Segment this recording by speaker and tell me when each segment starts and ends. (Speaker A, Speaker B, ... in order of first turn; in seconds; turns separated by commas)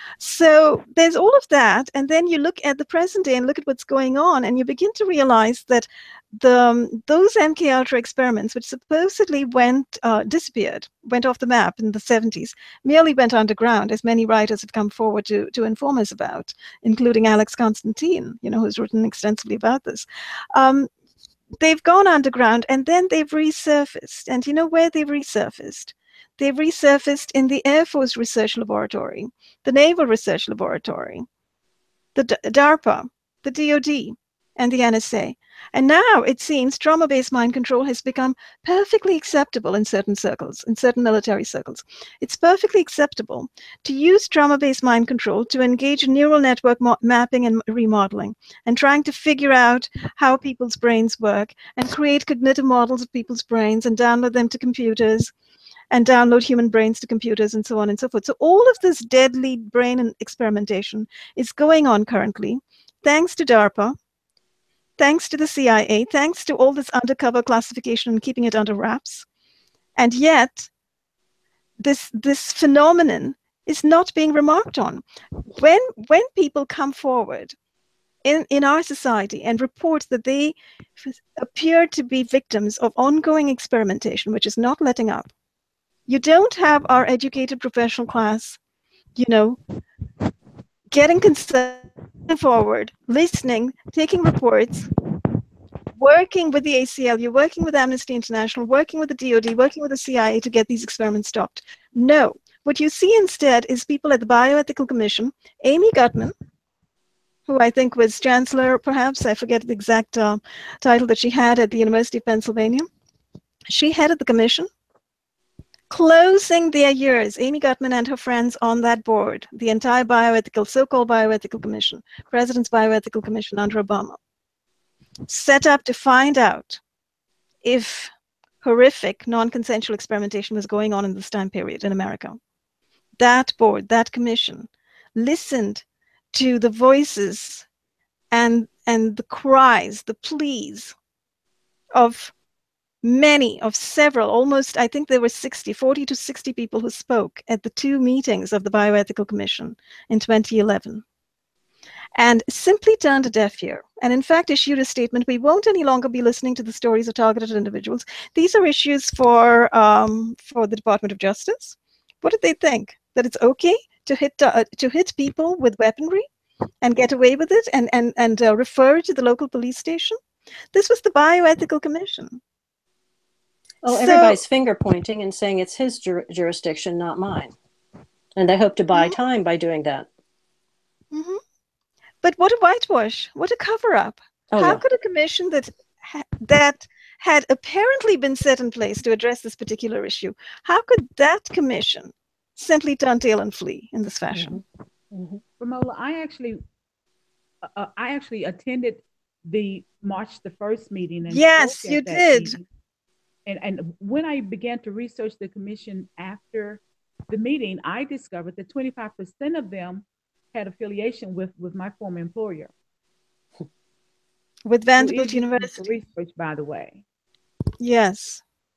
Speaker A: 0.2-20.9, Speaker A: 21.6-31.3, Speaker A: 32.1-55.3, Speaker A: 55.9-64.0, Speaker A: 65.0-69.2, Speaker A: 70.0-70.7, Speaker A: 71.8-75.0, Speaker A: 75.5-77.5, Speaker A: 78.2-85.3, Speaker A: 86.1-88.6, Speaker A: 89.2-89.6, Speaker A: 90.9-94.9, Speaker A: 96.0-106.3, Speaker A: 107.5-112.9, Speaker A: 113.7-114.7, Speaker A: 115.9-124.2, Speaker A: 125.3-126.8, Speaker A: 127.6-132.4, Speaker A: 133.2-137.7, Speaker A: 138.3-140.9, Speaker A: 141.9-142.3, Speaker A: 143.0-151.0, Speaker A: 152.2-166.3, Speaker A: 166.8-170.2, Speaker A: 170.7-172.4, Speaker B: 173.8-177.5, Speaker A: 173.9-174.4, Speaker B: 178.3-180.1, Speaker A: 181.1-181.4, Speaker A: 182.2-194.6, Speaker B: 184.5-184.8, Speaker B: 194.3-194.6, Speaker B: 195.1-195.4, Speaker C: 195.6-196.6, Speaker C: 197.7-202.6, Speaker A: 201.3-202.6, Speaker C: 203.4-212.7, Speaker A: 214.7-216.0, Speaker C: 215.0-217.0, Speaker A: 217.8-218.4